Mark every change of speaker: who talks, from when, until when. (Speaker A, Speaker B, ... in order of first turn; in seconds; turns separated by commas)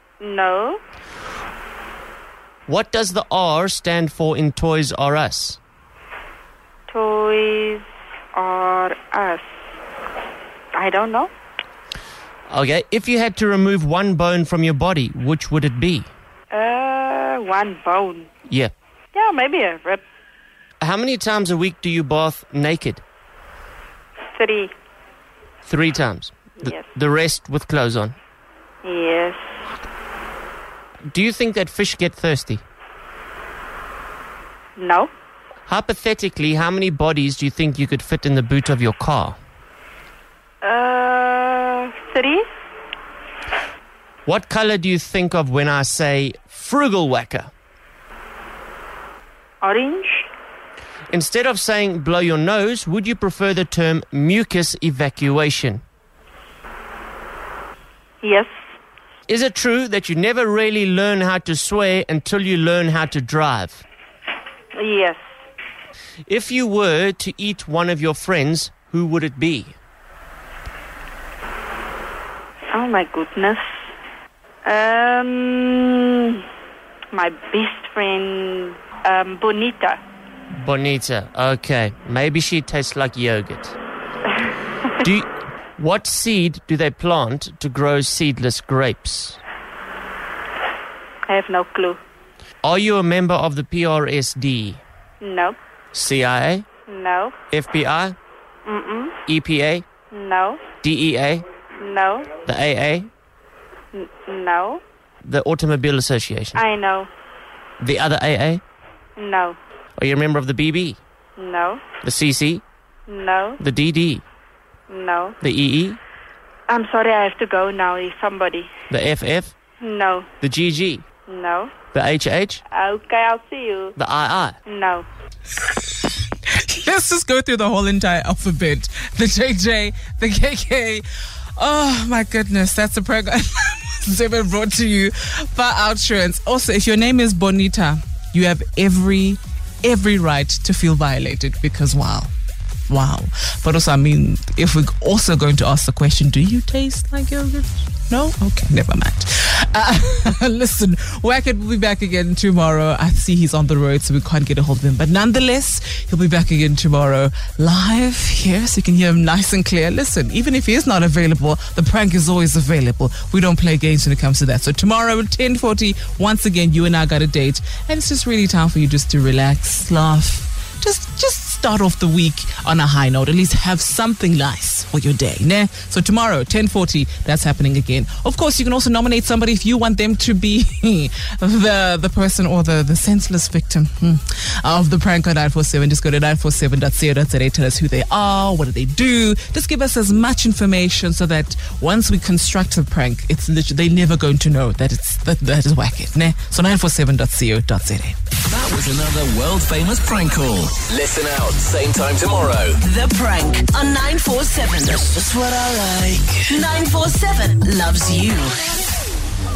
Speaker A: 0.2-0.8, Speaker B: 2.7-5.6, Speaker A: 6.9-9.4, Speaker A: 10.7-11.3, Speaker B: 12.5-16.1, Speaker A: 16.5-18.3, Speaker B: 18.5-18.7, Speaker A: 19.1-20.0, Speaker B: 20.8-23.0, Speaker A: 24.3-24.7, Speaker B: 25.6-28.2, Speaker A: 28.8-29.4, Speaker B: 31.1-32.6, Speaker A: 34.8-35.1, Speaker B: 35.7-39.4, Speaker A: 40.6-42.5, Speaker B: 44.2-47.5, Speaker A: 49.6-50.3, Speaker B: 51.1-55.8, Speaker A: 58.2-58.5, Speaker B: 59.3-63.8, Speaker A: 64.7-65.2, Speaker B: 66.3-69.8, Speaker A: 72.7-73.6, Speaker A: 74.6-76.4, Speaker A: 77.1-80.0, Speaker B: 80.5-83.8, Speaker B: 85.0-89.4, Speaker A: 91.3-92.0, Speaker B: 92.6-94.8, Speaker A: 95.2-95.6, Speaker B: 95.9-96.7, Speaker A: 96.9-97.3, Speaker B: 97.5-98.2, Speaker A: 98.6-99.2, Speaker B: 99.3-99.8, Speaker A: 100.1-100.6, Speaker B: 100.8-101.4, Speaker A: 101.8-102.3, Speaker B: 102.4-103.1, Speaker A: 103.9-104.8, Speaker B: 105.2-106.6, Speaker A: 106.5-107.1, Speaker B: 107.8-108.6, Speaker A: 109.2-109.6, Speaker B: 110.0-111.0, Speaker A: 111.4-111.8, Speaker B: 112.0-112.6, Speaker A: 113.1-113.6, Speaker B: 113.6-114.2, Speaker A: 114.9-115.3, Speaker B: 115.4-116.0, Speaker A: 116.7-118.7, Speaker B: 118.9-119.5, Speaker A: 119.8-120.3, Speaker B: 120.4-121.0, Speaker A: 121.3-121.7, Speaker B: 121.9-122.6, Speaker A: 122.7-123.9, Speaker B: 124.0-124.6, Speaker A: 124.7-125.1, Speaker C: 126.4-131.0, Speaker C: 131.6-142.3, Speaker C: 142.9-198.2, Speaker D: 198.6-202.8, Speaker E: 202.9-205.5, Speaker E: 207.7-208.6